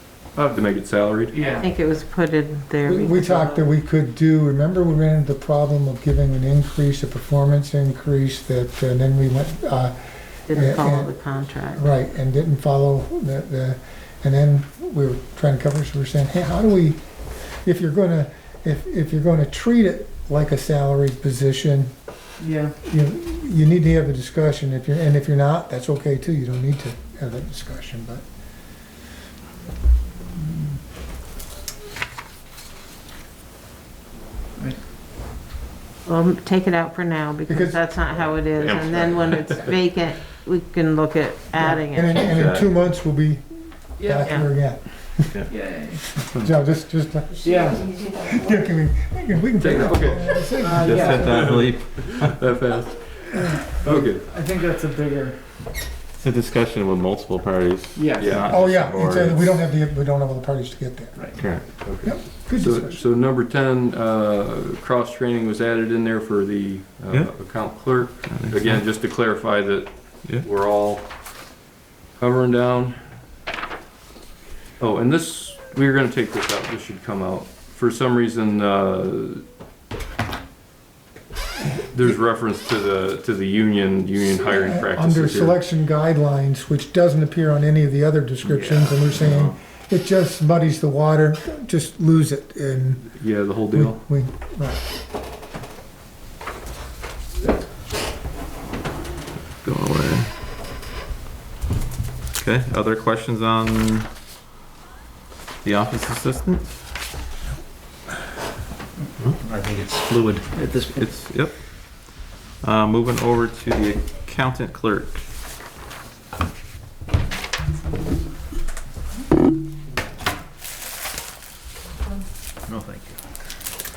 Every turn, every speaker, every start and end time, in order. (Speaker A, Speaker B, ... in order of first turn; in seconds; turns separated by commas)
Speaker A: 0.3-0.6, Speaker B: 0.5-1.3, Speaker A: 1.3-1.7, Speaker C: 1.6-3.7, Speaker D: 2.8-9.9, Speaker D: 10.5-11.1, Speaker C: 10.5-11.8, Speaker D: 11.7-17.0, Speaker D: 17.6-21.9, Speaker A: 22.4-22.7, Speaker D: 22.8-28.2, Speaker C: 36.0-42.2, Speaker D: 37.5-37.8, Speaker E: 38.6-39.5, Speaker D: 41.6-45.4, Speaker E: 42.2-42.7, Speaker A: 44.0-44.4, Speaker A: 45.0-46.1, Speaker D: 46.1-51.4, Speaker A: 47.4-47.9, Speaker B: 49.6-54.3, Speaker A: 50.5-51.4, Speaker E: 50.9-52.4, Speaker A: 53.8-55.4, Speaker E: 56.2-59.5, Speaker A: 57.9-58.4, Speaker B: 58.2-58.5, Speaker D: 58.4-63.0, Speaker E: 61.4-61.7, Speaker B: 61.7-71.1, Speaker E: 68.2-68.9, Speaker B: 72.2-73.0, Speaker B: 74.8-79.4, Speaker B: 81.9-85.6, Speaker D: 84.3-94.8, Speaker E: 89.1-89.5, Speaker B: 93.1-94.0, Speaker E: 99.6-100.3, Speaker E: 102.4-104.1, Speaker E: 105.6-106.7, Speaker F: 109.4-111.1, Speaker E: 110.9-115.2, Speaker F: 122.7-123.2